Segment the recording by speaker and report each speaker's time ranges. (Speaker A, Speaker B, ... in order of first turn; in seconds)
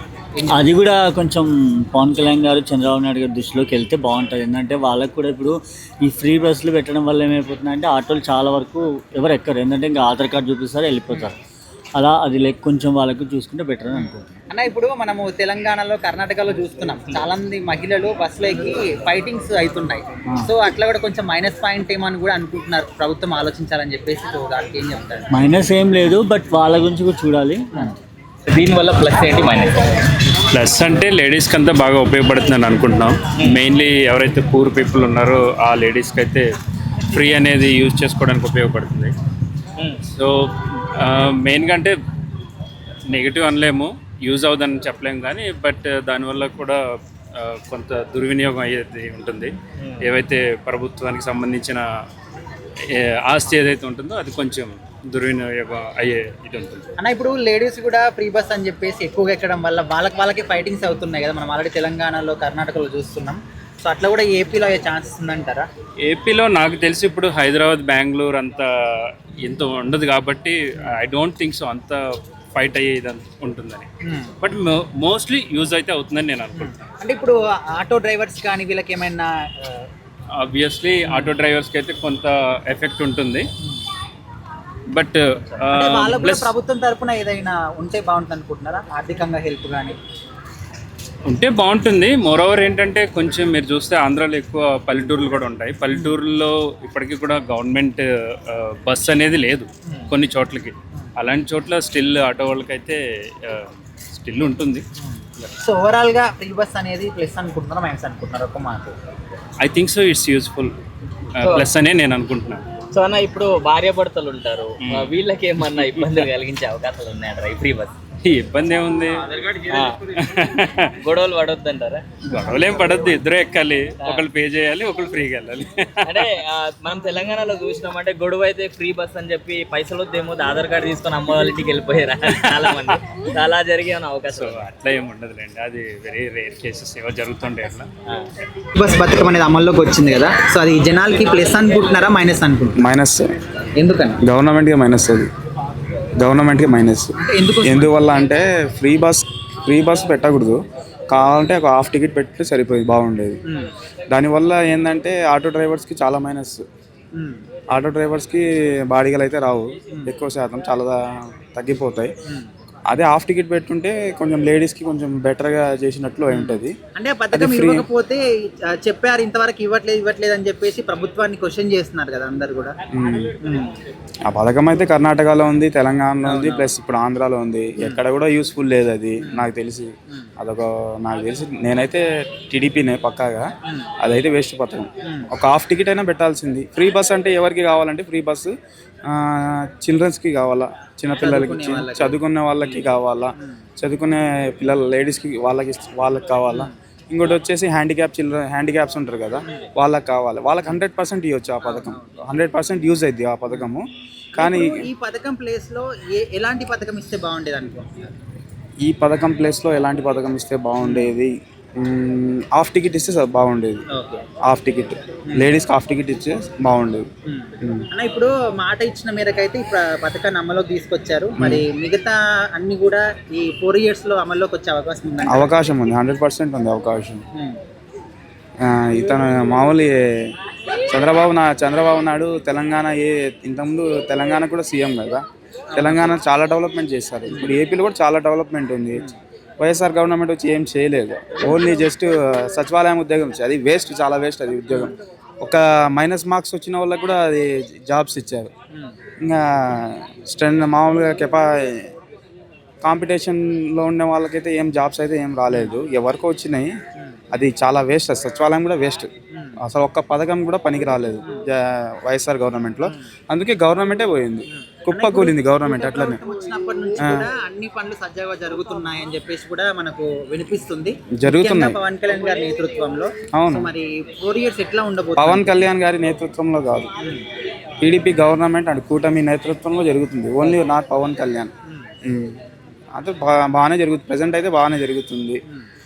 Speaker A: 0.3-0.6, 13.9-25.3, 57.0-65.7, 74.0-74.3, 76.6-79.8, 81.1-81.3, 85.7-90.0, 95.9-96.2, 105.0-109.0, 138.8-142.8, 143.8-144.2, 147.2-147.9, 157.2-157.4, 166.3-168.2, 168.8-172.8, 173.4-173.7, 176.2-176.7, 191.2-192.8, 201.6-202.0, 204.3-208.1, 210.8-211.1, 213.9-214.2, 217.3-225.5, 235.7-236.1, 264.8-275.6
Speaker B: 0.5-11.4, 11.9-14.4, 25.3-27.7
Speaker C: 28.5-29.7, 112.9-117.9, 119.3-120.0, 121.0-122.0, 126.1-134.7
Speaker D: 30.5-36.5, 37.1-39.1, 40.1-42.0, 43.1-46.8, 47.4-51.8, 52.9-56.9, 66.0-68.7, 69.4-72.0, 72.5-73.9, 74.4-76.8, 80.4-83.5, 84.9-86.5, 91.3-104.8, 109.6-110.8, 111.4-112.6, 114.8-116.2, 118.2-120.9, 122.3-126.3, 132.2-133.0, 134.3-137.9
Speaker E: 142.8-143.2, 144.2-145.3, 146.2-150.6, 151.1-153.4, 154.1-156.6, 157.7-162.1, 162.9-166.8, 167.3-167.9, 172.9-173.3, 174.3-183.4, 184.0-188.5, 189.1-203.8, 204.4-204.9, 208.8-213.8, 214.5-217.1, 221.4-221.6, 225.3-227.2, 228.6-229.9, 230.9-235.2, 235.8-239.1, 239.6-248.5, 249.2-251.9, 252.8-256.7, 257.3-259.1, 259.6-266.2, 271.2-271.8, 273.4-273.7, 275.2-276.9, 277.8-281.5, 282.1-282.4, 283.0-285.4